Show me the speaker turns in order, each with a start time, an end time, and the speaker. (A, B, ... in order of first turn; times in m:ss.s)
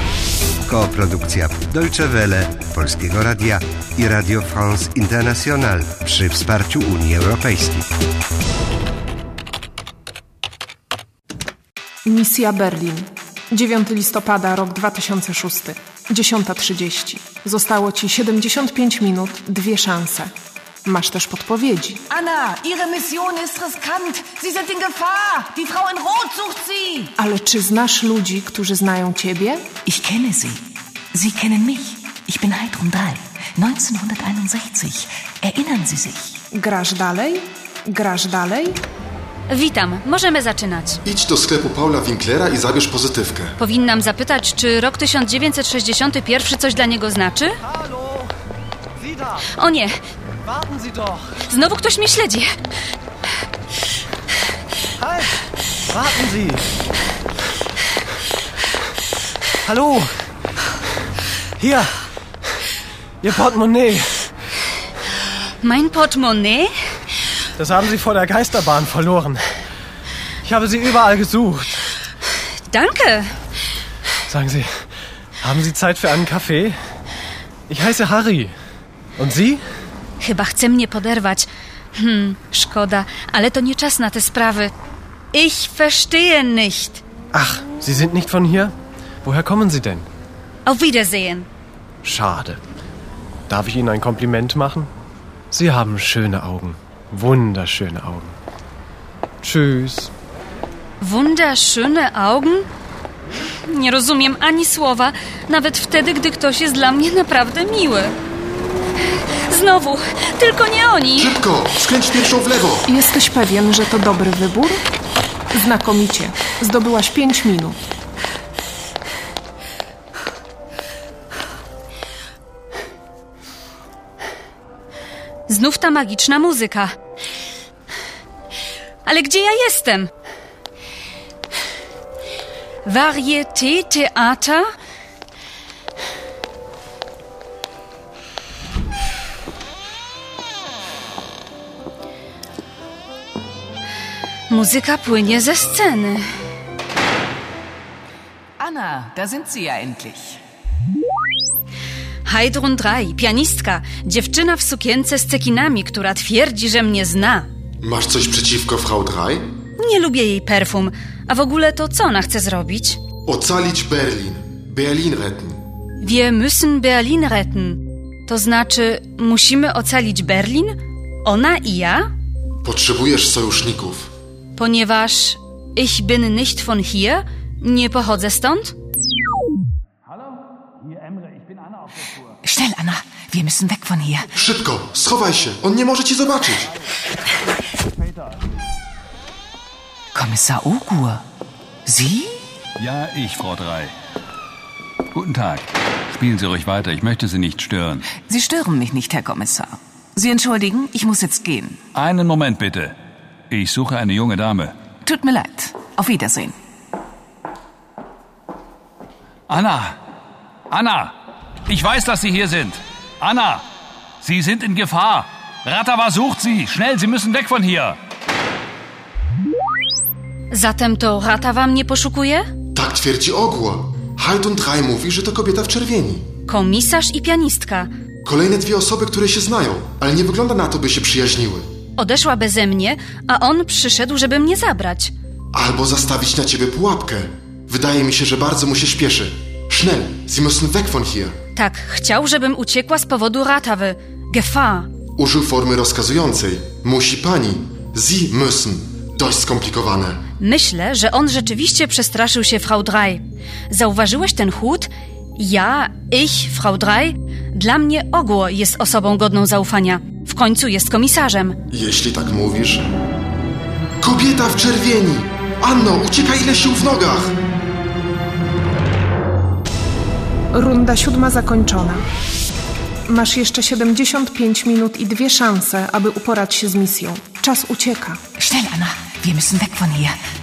0:00.6-0:07.9 A
0:12.0-0:20.3 B
0:20.8-0:22.0 B
0:22.1-0:27.1 C
0:23.9-0:24.2 D
0:27.2-0:29.7 B
0:29.9-0:30.6 D
0:31.2-0:36.2 D
0:36.5-0:38.8 B
0:39.5-0:41.0 E
0:41.0-0:43.6 F
0:43.6-0:47.6 E
0:47.6-0:48.3 G
0:49.0-0:49.4 G
0:49.6-0:50.0 E
0:50.4-0:51.2 G
0:51.5-0:52.5 E
0:55.0-0:55.4 G
0:55.9-0:56.6 G
0:59.6-1:00.1 G
1:01.6-1:01.9 G
1:03.2-1:04.3 G
1:05.6-1:06.7 E
1:07.6-1:09.4 G
1:10.4-1:11.9 G
1:12.7-1:13.3 E
1:14.3-1:14.7 G
1:15.4-1:16.8 G
1:17.7-1:18.5 G
1:19.2-1:19.6 G
1:20.2-1:24.7 E
1:25.3-1:27.0 E
1:27.3-1:28.7 G
1:29.2-1:30.1 G
1:30.6-1:31.5 E
1:32.0-1:32.6 G
1:33.5-1:34.9 G
1:35.5-1:38.3 G
1:39.4-1:40.1 G
1:41.0-1:42.6 E
1:43.7-1:48.2 E
1:49.5-1:51.3 E
1:51.2-1:52.9 F
1:52.9-1:54.8 B
1:55.5-1:57.8 B
2:05.5-2:06.9 E
2:09.0-2:10.1 E
2:12.8-2:14.6 E
2:24.5-2:26.2 E
2:28.6-2:30.2 D
2:28.7-2:30.1 C
2:32.2-2:37.4 E
2:37.8-2:39.5 F
2:39.8-2:43.0 E
2:43.2-2:45.6 F
2:46.0-2:52.1 E
2:52.6-2:54.1 F
2:54.6-2:58.7 E
3:00.9-3:02.1 H
3:02.4-3:04.2 D
3:04.3-3:06.7 F
3:10.1-3:11.2 D
3:11.9-3:12.3 D
3:12.8-3:13.9 H
3:15.1-3:18.2 H
3:18.3-3:21.7 D
3:20.6-3:21.4 C
3:21.9-3:22.9 H
3:23.5-3:24.7 H
3:25.1-3:26.2 C
3:25.2-3:26.5 D
3:29.5-3:29.9 H
3:30.7-3:31.1 H
3:31.7-3:33.6 H
3:34.2-3:38.0 H
3:40.5-3:42.4 E
3:42.7-3:46.3 F
3:46.5-3:47.9 E
3:48.2-3:51.7 F
3:52.0-3:55.1 E
3:55.5-4:01.3 F
4:01.5-4:04.9 E
4:05.2-4:10.2 F
4:10.4-4:21.6 E
4:21.7-4:22.9 F
4:24.0-4:27.3 F
4:30.5-4:32.0 B
4:33.0-4:38.2 B
4:38.4-4:40.1 D